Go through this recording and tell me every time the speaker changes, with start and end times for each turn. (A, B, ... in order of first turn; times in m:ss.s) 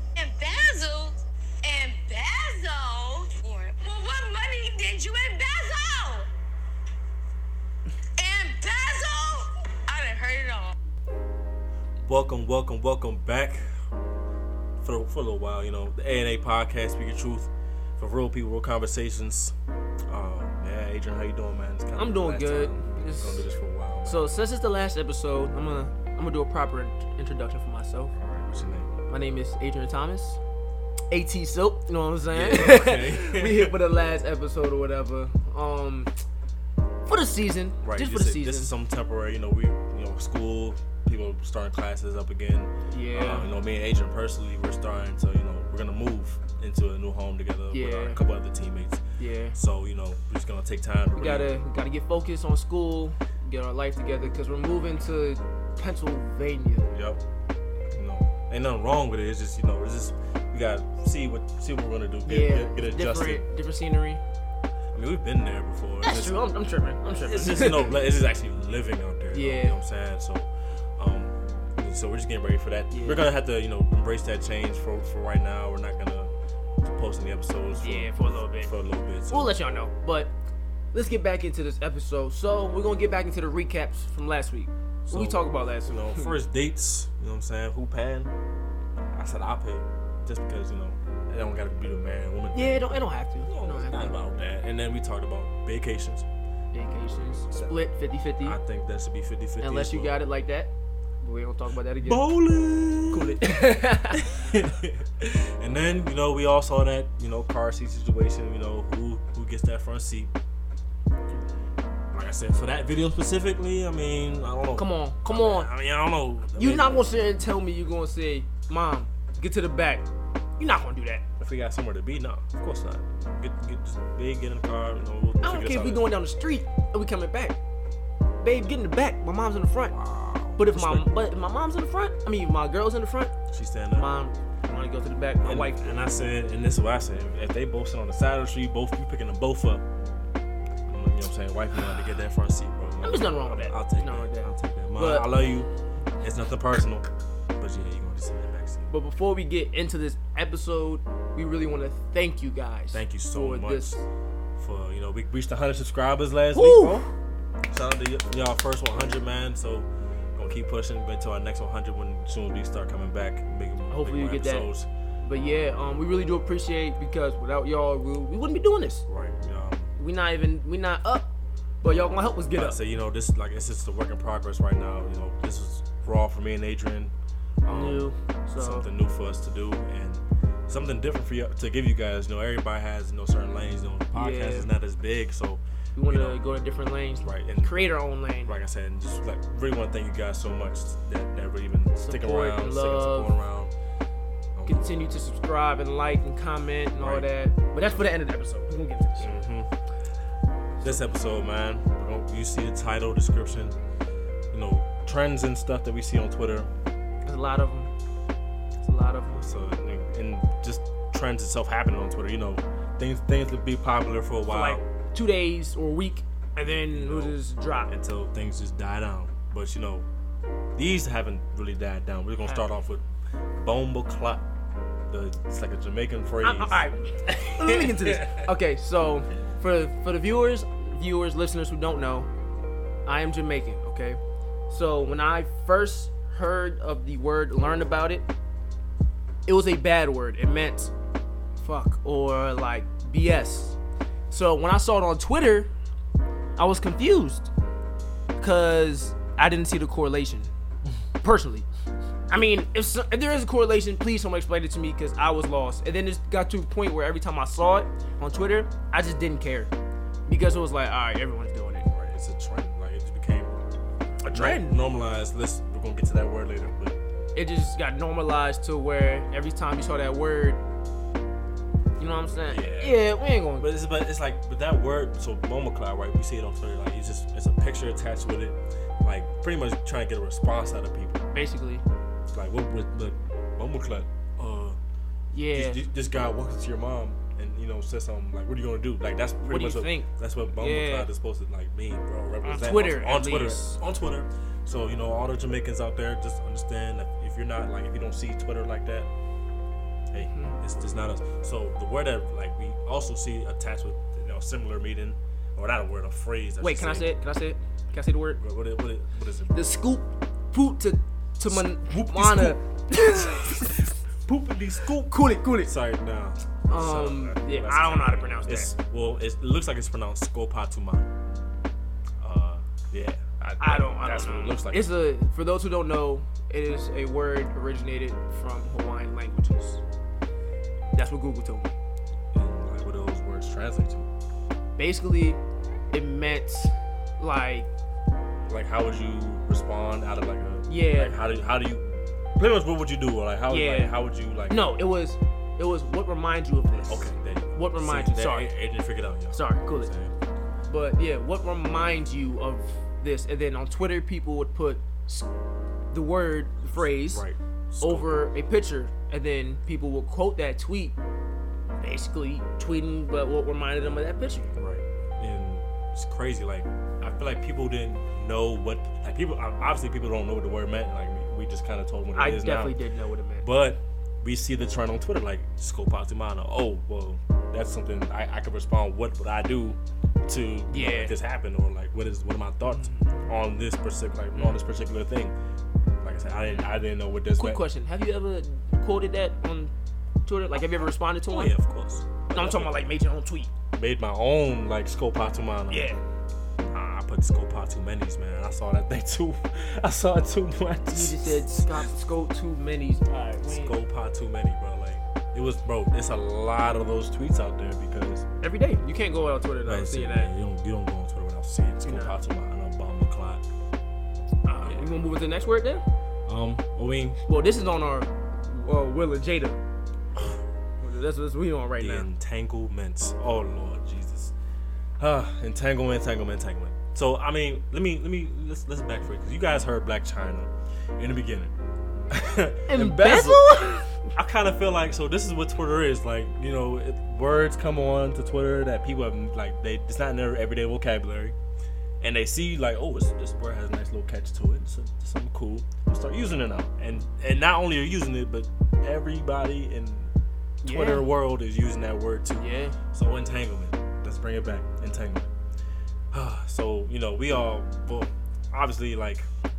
0:00.2-0:06.3 A
0:08.2-0:10.8 A
0:12.0-0:13.6 B
0:14.8-0:19.6 B
0:20.1-0:24.4 B
0:22.0-0:23.5 C
0:24.0-0:28.2 C
0:28.1-0:28.9 B
0:29.1-0:30.4 C
0:31.1-0:36.1 C
0:32.3-0:33.8 B
0:37.1-0:38.7 C
0:37.8-0:49.0 B
0:42.9-0:43.5 C
0:47.7-0:48.2 C
0:49.2-0:49.6 C
0:49.5-0:51.6 B
0:51.1-0:56.9 C
0:56.9-0:57.2 B
0:57.9-1:03.4 B
1:02.2-1:04.2 C
1:04.9-1:06.4 B
1:06.0-1:08.0 C
1:07.1-1:19.6 B
1:09.3-1:09.8 C
1:12.9-1:13.3 C
1:17.8-1:18.7 C
1:19.3-1:20.4 C
1:20.9-1:26.3 C
1:25.1-1:28.3 B
1:29.1-1:36.3 B
1:32.5-1:34.2 C
1:36.7-1:38.6 C
1:38.4-1:40.2 B
1:39.6-1:42.3 C
1:42.0-1:43.4 B
1:43.1-1:44.4 C
1:44.1-1:50.3 B
1:52.1-1:57.3 B
1:54.8-1:55.7 C
1:56.6-2:01.3 C
2:01.4-2:06.2 B
2:05.4-2:07.6 C
2:08.4-2:10.0 C
2:09.9-2:11.2 B
2:10.6-2:13.4 C
2:13.5-2:14.1 B
2:13.9-2:16.0 C
2:15.4-2:19.8 B
2:20.9-2:27.1 B
2:23.0-2:25.3 C
2:27.6-2:28.9 B
2:28.9-2:34.0 C
2:32.9-2:34.0 B
2:34.6-2:37.1 B
2:36.5-2:37.1 C
2:37.7-2:44.9 B
2:43.9-2:49.1 C
2:49.1-2:49.9 B
2:50.0-2:52.8 C
2:52.5-2:57.1 B
2:57.6-3:06.4 B
2:57.7-2:58.9 C
3:04.1-3:04.7 C
3:06.0-3:08.6 C
3:07.2-3:13.7 B
3:12.0-3:13.4 C
3:14.6-3:15.0 B
3:14.7-3:19.3 C
3:16.9-3:17.3 B
3:19.2-3:19.7 B
3:20.8-3:23.8 B
3:24.5-3:26.7 B
3:27.2-3:27.9 C
3:28.8-3:29.5 C
3:29.3-3:34.8 B
3:34.5-3:38.0 C
3:36.7-3:40.1 B
3:40.8-3:43.0 B
3:43.6-3:44.5 B
3:45.1-3:46.9 B
3:46.4-3:52.3 C
3:47.6-3:48.5 B
3:53.0-3:58.3 C
3:59.5-4:00.9 C
4:01.6-4:03.8 C
4:04.3-4:05.7 C
4:06.6-4:07.5 C
4:08.4-4:10.5 C
4:11.2-4:11.7 C
4:12.3-4:19.7 C
4:20.3-4:21.9 C
4:21.8-4:23.6 B
4:24.2-4:24.8 C
4:24.2-4:27.0 B
4:27.4-4:30.6 C
4:32.0-4:33.7 C
4:32.4-4:41.3 B
4:41.3-4:41.8 C
4:42.3-4:44.8 B
4:45.3-4:45.8 C
4:45.5-4:59.1 B
4:49.4-4:51.1 C
4:52.4-4:53.8 C
5:00.1-5:07.2 B
5:06.6-5:08.4 C
5:08.3-5:09.6 B
5:09.5-5:13.8 C
5:11.4-5:21.1 B
5:15.1-5:15.7 C
5:16.7-5:18.7 C
5:22.2-5:25.0 B
5:23.6-5:29.8 C
5:30.9-5:31.7 C
5:32.3-5:34.1 B
5:34.8-5:35.4 C
5:35.9-5:37.7 C
5:38.5-5:44.7 B
5:40.7-5:41.2 C
5:43.5-5:48.5 C
5:46.8-5:50.1 B
5:49.3-5:49.9 C
5:50.7-5:55.3 C
5:55.9-5:57.2 C
5:56.9-5:58.2 B
5:57.8-6:01.0 C
6:01.8-6:04.5 C
6:04.6-6:12.8 B
6:12.2-6:13.5 C
6:13.4-6:25.4 B
6:20.7-6:21.2 C
6:22.6-6:23.3 C
6:24.3-6:24.6 C
6:26.0-6:27.6 B
6:26.4-6:29.7 C
6:30.2-6:31.6 C
6:31.3-6:32.9 B
6:32.3-6:33.5 C
6:33.7-6:35.9 B
6:35.7-6:36.0 C
6:36.6-6:41.8 B
6:40.9-6:43.8 C
6:43.4-6:48.3 B
6:48.4-6:50.3 C
6:49.6-6:53.4 B
6:51.8-6:52.2 C
6:54.5-6:55.8 C
6:54.6-6:55.1 B
6:56.3-6:57.2 B
6:57.2-6:59.6 C
7:00.8-7:02.1 C
7:01.8-7:04.3 B
7:05.0-7:11.6 B
7:12.1-7:21.4 B
7:12.7-7:14.0 C
7:22.0-7:30.1 B
7:30.6-7:35.3 B
7:30.6-7:31.1 C
7:32.4-7:32.8 C
7:36.1-7:39.3 B